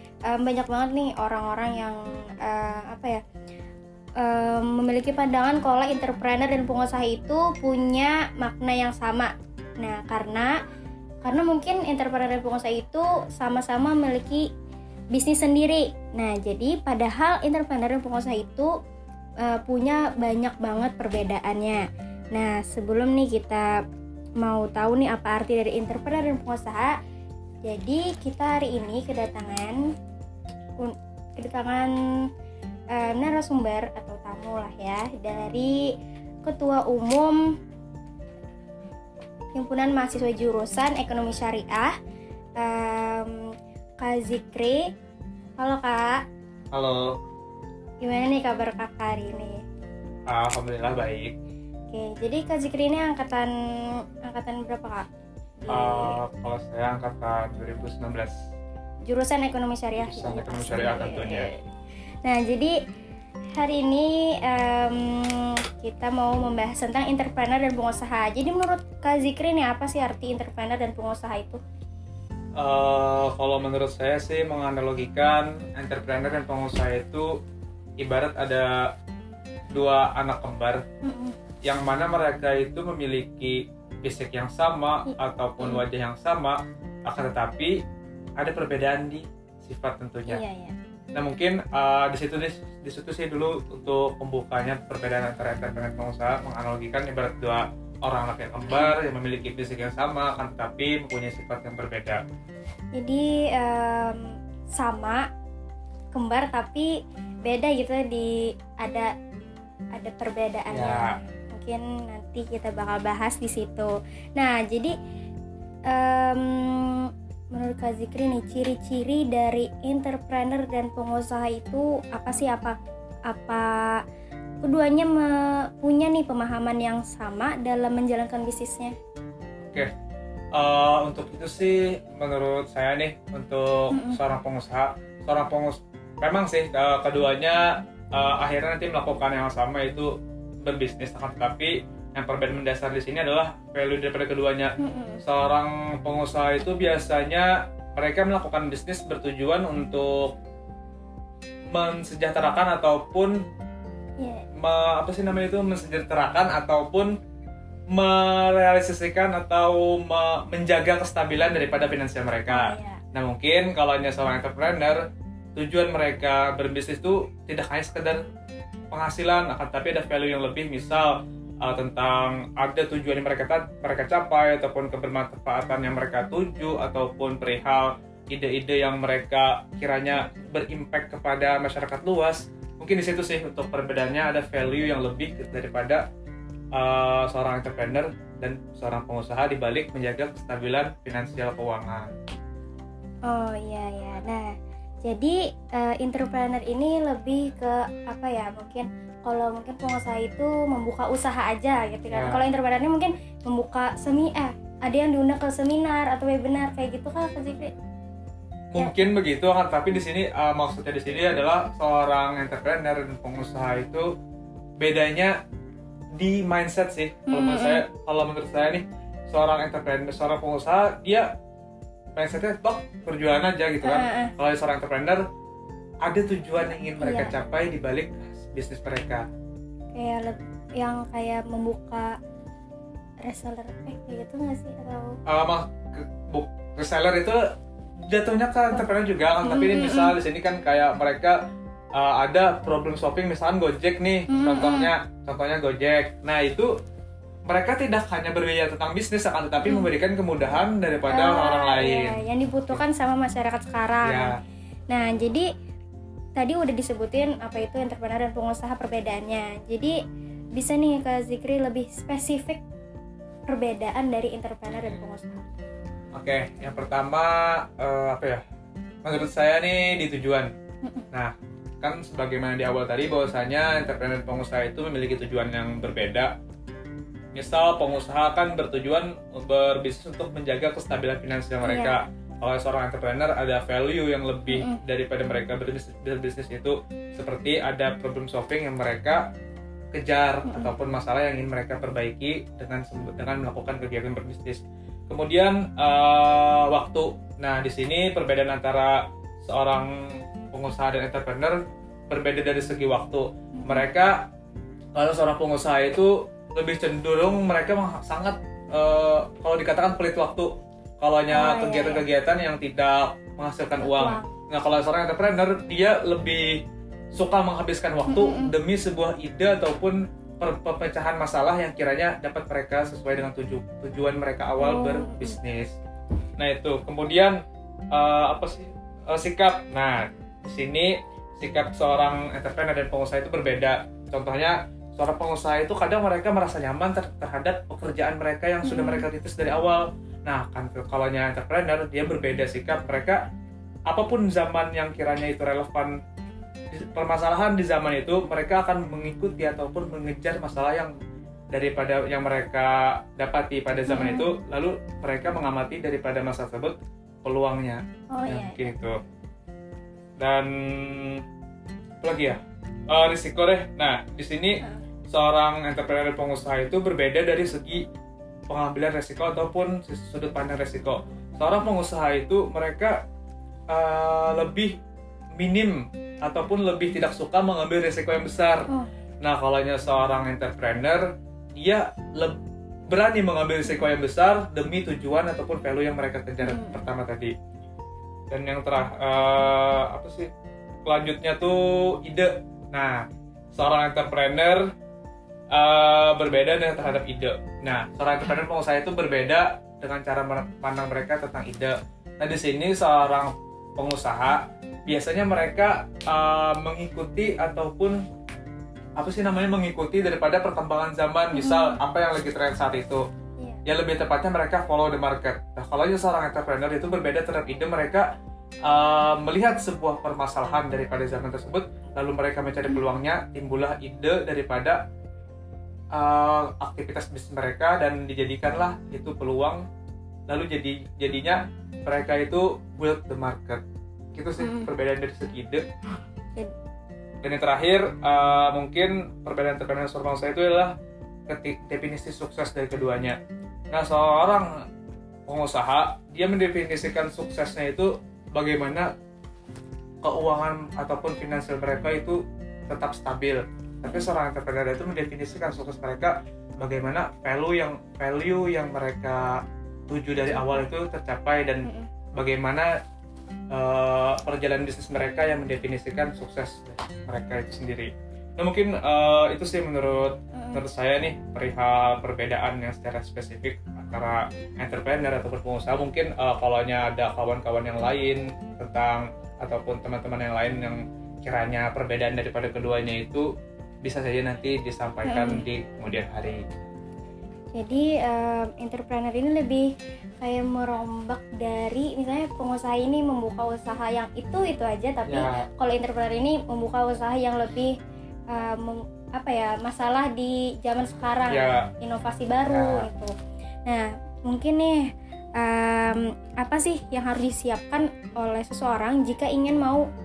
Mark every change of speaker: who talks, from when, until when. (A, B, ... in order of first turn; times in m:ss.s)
0:00.3-0:03.2 A
0:04.2-0:09.3 A
0:09.8-0:10.5 A
0:11.2-0:14.5 A
0:15.1-0:18.7 A
0:19.4-0:21.8 A
0:22.3-0:23.7 A
0:24.4-0:26.9 A
0:27.6-0:29.8 A
0:30.8-0:31.9 A
0:32.9-0:35.8 A
0:36.4-0:37.4 A
0:39.5-0:41.9 A
0:42.6-0:43.5 A
0:44.0-0:44.8 A
0:45.6-0:46.2 A
0:46.7-0:47.1 B
0:48.0-0:49.5 A
0:50.3-0:51.3 B
0:51.9-0:53.5 A
0:54.2-0:55.0 A
0:55.6-0:56.1 A
0:55.7-0:58.3 B
0:59.1-1:01.6 A
1:00.0-1:01.5 B
1:02.2-1:02.7 A
1:03.5-1:11.6 A
1:12.6-1:17.3 B
1:18.0-1:18.7 B
1:19.7-1:20.8 B
1:21.0-1:21.4 A
1:21.6-1:27.8 B
1:25.1-1:25.8 A
1:28.4-1:30.4 B
1:30.3-1:30.7 A
1:31.1-1:42.2 B
1:43.0-1:44.2 A
1:44.7-1:45.2 A
1:46.1-1:46.9 A
1:47.4-1:49.1 A
1:50.0-1:54.9 A
1:50.7-1:51.0 B
1:55.9-2:02.8 A
2:03.3-2:04.0 A
2:04.6-2:08.9 A
2:09.6-2:09.9 B
2:10.6-2:20.1 B
2:13.9-2:14.2 A
2:20.6-2:24.7 B
2:24.8-2:25.2 A
2:25.2-2:30.3 B
2:31.7-2:33.4 B
2:34.6-2:37.1 B
2:37.9-2:45.0 B
2:42.5-2:43.0 A
2:45.6-2:48.2 B
2:48.9-3:06.0 B
3:06.7-3:12.1 B
3:13.3-3:14.5 A
3:15.0-3:27.7 A
3:22.1-3:22.4 B
3:28.7-3:34.0 B
3:34.8-3:35.3 B
3:36.2-3:41.3 B
3:37.3-3:37.8 A
3:42.2-3:45.2 B
3:43.8-3:44.3 A
3:46.0-3:49.2 B
3:47.0-3:47.3 A
3:49.9-3:52.1 A
3:53.2-3:55.1 A
3:55.3-3:57.4 B
3:58.0-4:01.4 B
3:59.4-4:00.1 A
4:02.0-4:06.7 B
4:04.3-4:04.9 A
4:07.5-4:12.8 B
4:09.6-4:09.9 A
4:11.1-4:14.3 A
4:14.0-4:14.3 B
4:14.9-4:15.4 A
4:16.4-4:20.0 A
4:20.5-4:22.6 A
4:23.5-4:25.5 A
4:26.1-4:28.4 B
4:29.0-4:30.5 B
4:31.1-4:36.3 B
4:37.3-4:49.2 B
4:41.6-4:42.0 A
4:44.5-4:44.8 A
4:49.9-4:59.9 B
4:50.4-4:50.7 A
5:00.5-5:01.6 B
5:02.1-5:04.2 B
5:03.6-5:03.9 A
5:04.9-5:16.5 B
5:11.3-5:12.0 A
5:13.8-5:14.3 A
5:17.1-5:25.7 B
5:18.1-5:18.5 A
5:24.6-5:25.4 A
5:26.4-5:27.4 B
5:27.9-5:43.2 B
5:38.6-5:39.1 A
5:43.9-5:46.0 B
5:46.7-5:50.9 B
5:51.5-5:59.0 B
5:53.9-5:54.3 A
5:58.1-5:58.7 A
6:00.2-6:01.2 B
6:02.0-6:07.8 B
6:08.5-6:13.0 B
6:13.7-6:14.7 B
6:15.4-6:18.7 B
6:19.2-6:27.3 B
6:26.4-6:26.8 A
6:28.3-6:30.3 B
6:30.8-6:34.6 B
6:35.5-6:48.0 B
6:49.0-6:53.0 B
6:51.3-6:51.8 A
6:53.6-6:58.1 B
6:58.6-7:04.8 B
7:05.9-7:09.6 B
7:10.3-7:13.6 B
7:14.1-7:15.6 B
7:14.4-7:14.7 A
7:17.2-7:20.7 B
7:21.3-7:23.2 B
7:23.7-7:24.5 B
7:25.3-7:28.9 B
7:30.0-7:39.4 B
7:33.8-7:34.1 A
7:39.9-7:42.7 B
7:40.2-7:40.6 A
7:43.5-8:03.2 B
7:50.3-7:50.6 A
8:03.8-8:06.4 B
8:05.0-8:05.4 A
8:07.5-8:09.6 A
8:10.2-8:17.7 A
8:15.1-8:15.4 B
8:18.3-8:23.1 A
8:21.3-8:21.7 B
8:22.4-8:22.8 B
8:23.6-8:29.8 A